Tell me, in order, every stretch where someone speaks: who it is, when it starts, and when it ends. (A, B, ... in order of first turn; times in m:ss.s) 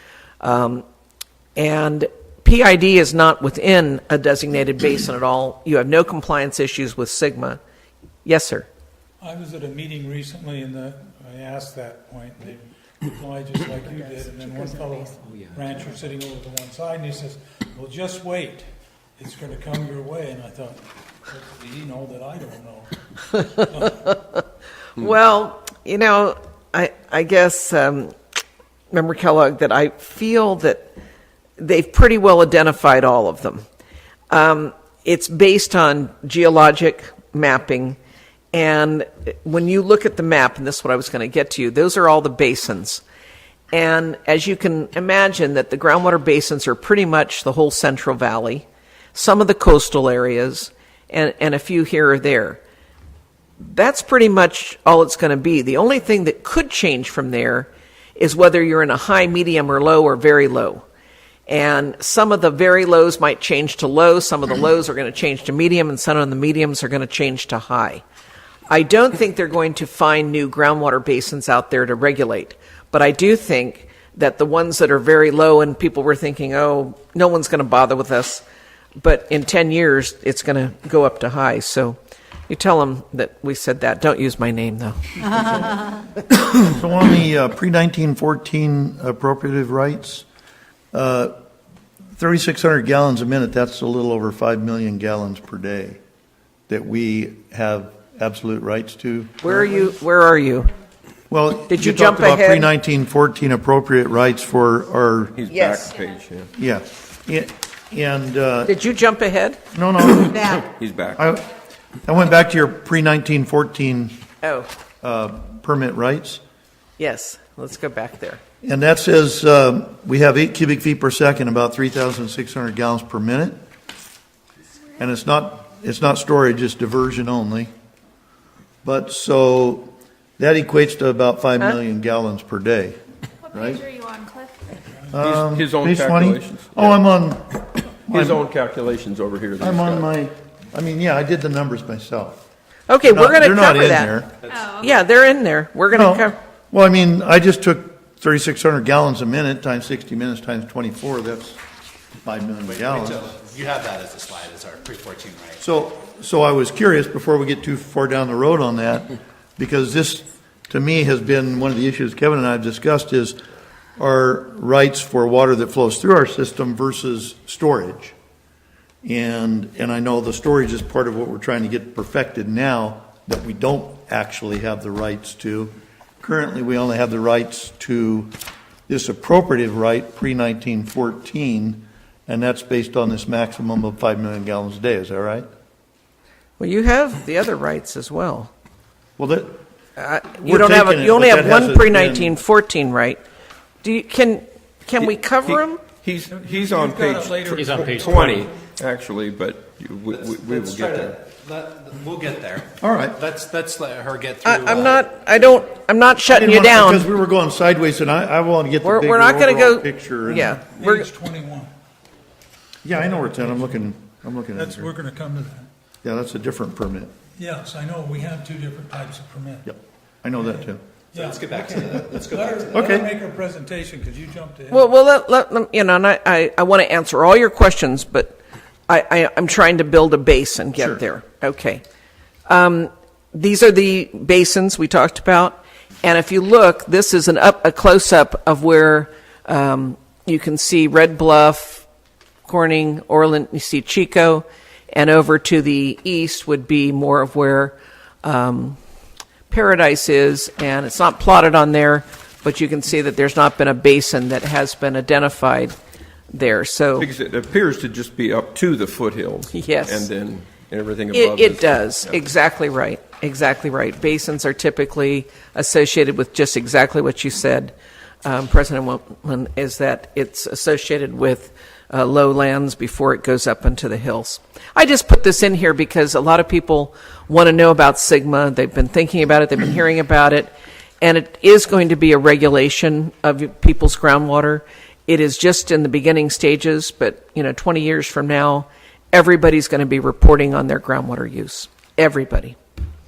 0:00.4-0:00.8 A
0:01.6-0:07.6 A
0:08.2-0:08.7 A
0:09.2-0:22.9 B
0:13.8-0:15.3 C
0:23.4-0:24.4 A
0:23.6-0:24.1 B
0:24.9-0:28.2 A
0:28.9-0:30.9 A
0:31.6-0:33.6 A
0:34.3-0:38.0 A
0:38.5-0:43.0 A
0:43.7-0:52.6 A
0:53.6-1:00.8 A
1:01.5-1:08.0 A
1:08.7-1:18.4 A
1:19.0-1:22.0 A
1:22.5-1:25.0 A
1:26.5-1:30.2 D
1:30.9-1:31.4 D
1:32.2-1:36.0 D
1:36.7-1:39.9 D
1:39.4-1:40.7 A
1:41.3-1:45.4 D
1:41.7-1:42.7 A
1:45.4-1:46.5 E
1:45.5-1:45.9 A
1:46.6-1:48.8 D
1:48.6-1:49.6 A
1:49.7-1:50.6 D
1:50.5-1:51.2 E
1:51.2-1:51.5 D
1:52.0-1:54.2 D
1:54.4-1:54.7 A
1:55.0-1:56.4 D
1:57.0-1:58.4 A
1:58.6-2:03.6 D
2:05.0-2:07.7 D
2:08.8-2:13.0 D
2:13.5-2:13.9 D
2:13.6-2:14.7 C
2:15.1-2:18.4 D
2:15.2-2:17.0 E
2:18.1-2:20.1 E
2:19.6-2:22.4 D
2:22.9-2:24.2 A
2:23.0-2:24.3 D
2:24.4-2:25.0 F
2:24.8-2:26.4 A
2:25.9-2:31.6 D
2:32.2-2:33.4 D
2:32.6-2:35.6 F
2:35.6-2:43.4 D
2:44.0-2:48.1 D
2:49.0-2:58.4 D
2:58.9-3:05.4 D
3:06.6-3:08.5 A
3:09.2-3:09.6 D
3:10.0-3:13.2 A
3:10.4-3:12.4 D
3:13.8-3:15.8 A
3:15.4-3:21.2 E
3:16.3-3:18.5 B
3:17.6-3:18.5 F
3:20.1-3:25.0 F
3:22.8-3:23.2 D
3:24.4-3:27.1 A
3:26.3-3:30.6 D
3:28.8-3:31.1 A
3:30.4-3:31.7 B
3:32.8-3:34.9 D
3:34.5-3:35.7 B
3:36.0-3:37.1 D
3:37.4-3:39.6 B
3:39.6-3:40.8 D
3:41.1-3:43.0 F
3:41.2-3:44.9 B
3:42.7-3:43.1 D
3:44.7-3:51.8 A
3:52.5-4:01.9 A
4:02.4-4:08.8 A
4:09.5-4:15.7 A
4:16.3-4:17.1 A
4:17.0-4:22.2 E
4:19.5-4:20.0 A
4:21.1-4:52.6 A